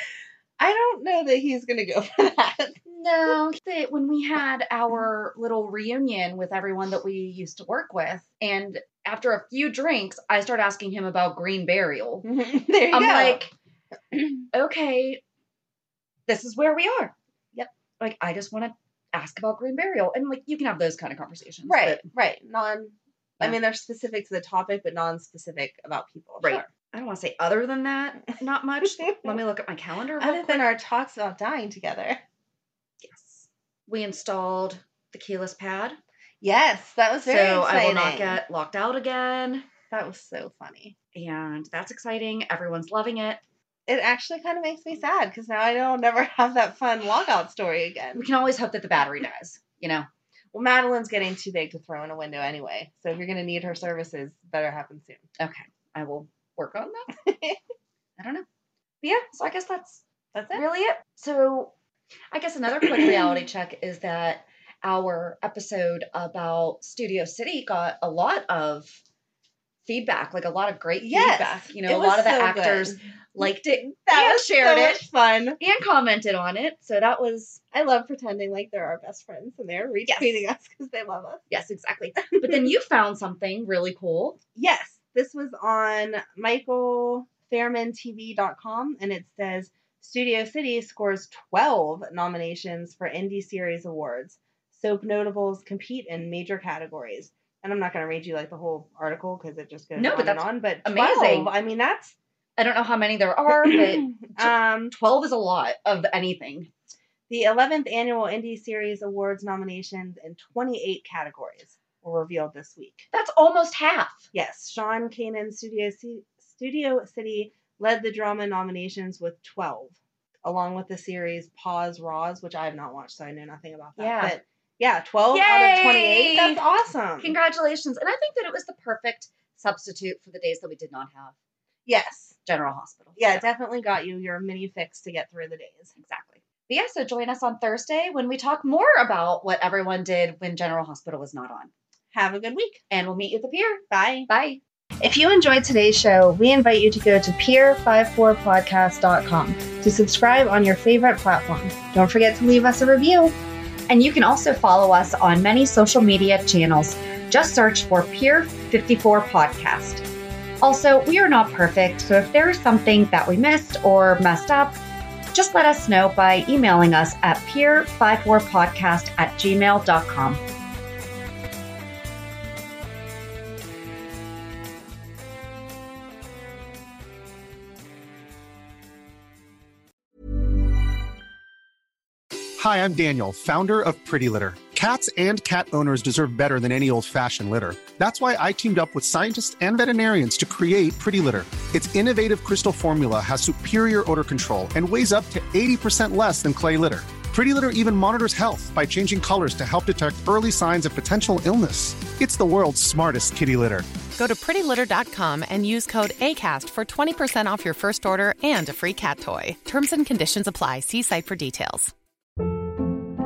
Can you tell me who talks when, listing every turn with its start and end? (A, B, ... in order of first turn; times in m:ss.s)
0:00.6-0:02.8 A
0:02.9-0:12.3 B
0:12.2-0:13.4 A
0:12.9-0:13.5 B
0:14.5-0:15.2 B
0:16.3-0:17.1 B
0:18.0-0:22.0 B
0:21.7-0:26.7 A
0:26.4-0:30.7 B
0:30.2-0:32.2 A
0:33.0-0:36.0 B
0:36.4-0:38.4 A
0:37.3-0:39.7 B
0:39.9-0:41.0 A
0:41.1-0:43.4 B
0:43.9-0:48.2 A
0:48.2-0:50.1 B
0:50.5-0:55.2 A
0:55.4-0:57.2 B
0:57.3-0:57.6 A
0:58.2-0:58.4 B
0:59.0-1:00.0 B
1:00.3-1:00.6 A
1:00.5-1:01.7 B
1:02.3-1:09.0 B
1:03.0-1:03.2 A
1:09.8-1:15.0 B
1:11.0-1:15.6 A
1:15.6-1:17.6 B
1:17.7-1:21.4 A
1:20.1-1:20.4 B
1:21.5-1:24.4 B
1:24.6-1:42.2 A
1:40.0-1:41.5 B
1:42.6-1:46.7 B
1:43.7-1:45.0 A
1:47.3-1:53.1 A
1:53.1-1:54.3 B
1:54.3-2:07.4 A
2:04.0-2:04.4 B
2:05.3-2:06.6 B
2:07.2-2:11.3 B
2:11.9-2:12.4 A
2:12.4-2:13.5 B
2:13.2-2:15.9 A
2:16.0-2:21.7 B
2:22.1-2:22.8 A
2:22.9-2:24.6 B
2:23.9-2:24.3 A
2:25.0-2:33.4 A
2:33.9-2:40.0 B
2:40.6-2:44.8 B
2:45.3-2:50.4 B
3:02.6-3:23.9 C
3:24.2-3:31.9 D